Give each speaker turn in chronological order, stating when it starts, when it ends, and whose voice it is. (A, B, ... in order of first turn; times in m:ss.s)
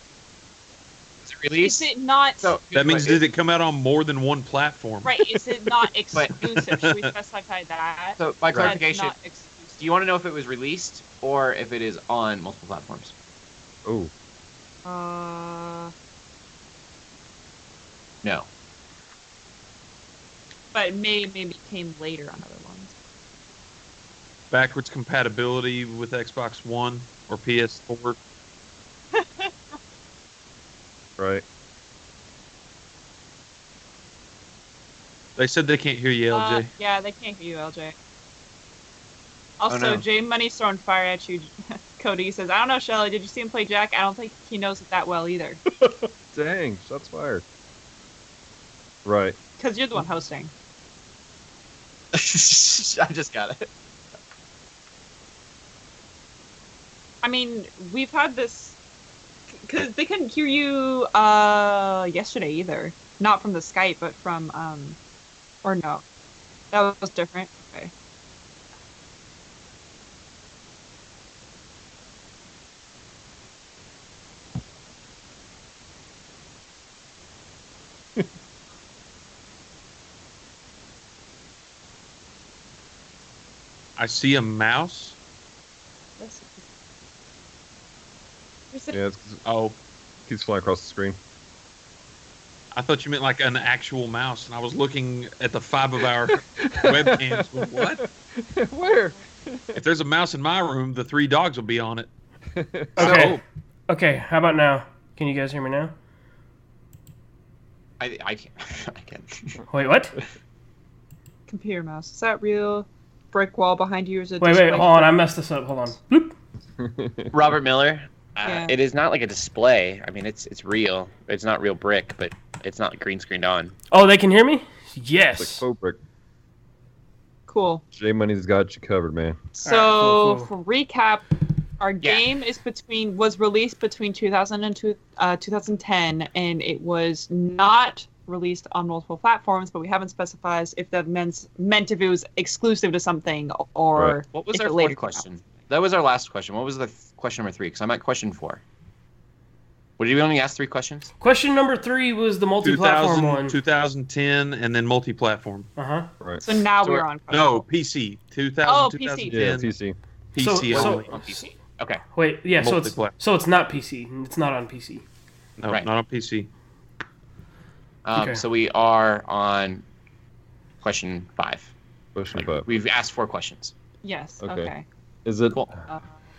0:01.2-0:01.9 A
0:01.6-0:02.5 B
0:02.4-0:03.2 A
0:02.7-0:05.2 C
0:05.0-0:09.8 B
0:06.5-0:07.1 C
0:08.2-0:09.1 A
0:09.8-0:13.1 A
0:13.8-0:14.1 D
0:14.8-0:15.9 B
0:20.7-0:22.9 B
0:24.5-0:28.2 C
0:29.1-0:29.5 B
0:31.2-0:31.4 D
0:35.4-0:36.7 C
0:36.3-0:37.9 B
0:39.6-0:45.6 B
0:39.7-0:40.0 A
0:45.8-0:47.4 D
0:49.0-0:49.4 D
0:49.6-0:50.5 B
0:52.1-0:53.7 A
0:57.2-0:58.8 B
0:59.6-1:05.0 B
1:05.6-1:06.0 B
1:06.7-1:07.9 B
1:24.0-1:25.2 C
1:26.2-1:26.6 B
1:28.7-1:29.0 B
1:28.9-1:29.4 D
1:29.4-1:29.8 C
1:30.3-1:31.2 D
1:32.7-1:38.0 C
1:36.6-1:39.8 D
1:39.7-1:42.1 C
1:42.5-1:43.3 D
1:43.0-1:43.4 C
1:43.0-1:43.4 E
1:43.9-1:45.9 E
1:48.0-1:49.6 A
1:49.7-1:50.2 E
1:51.5-1:55.1 B
1:54.4-1:56.4 E
1:56.8-1:57.3 D
1:57.3-2:03.7 A
1:58.4-1:58.7 B
2:03.9-2:05.6 E
2:05.4-2:06.0 D
2:07.5-2:07.8 B
2:07.9-2:09.4 D
2:09.6-2:10.5 E
2:09.6-2:11.2 B
2:11.8-2:25.2 B
2:24.3-2:28.6 A
2:30.0-2:31.1 A
2:31.2-2:33.6 E
2:32.6-2:35.7 C
2:35.8-2:36.1 E
2:36.4-2:37.6 B
2:36.8-2:39.7 C
2:38.6-2:39.6 B
2:39.3-2:40.0 D
2:40.3-2:41.1 C
2:40.4-2:41.6 E
2:40.7-2:42.0 A
2:42.1-2:45.0 E
2:42.6-2:43.1 C
2:45.6-2:46.5 C
2:48.0-2:49.8 A
2:48.2-2:48.4 E
2:50.8-2:51.7 A
2:52.1-2:52.6 D
2:52.4-2:53.7 A
2:54.0-2:54.8 B
2:54.4-2:54.7 D
2:55.2-2:55.7 D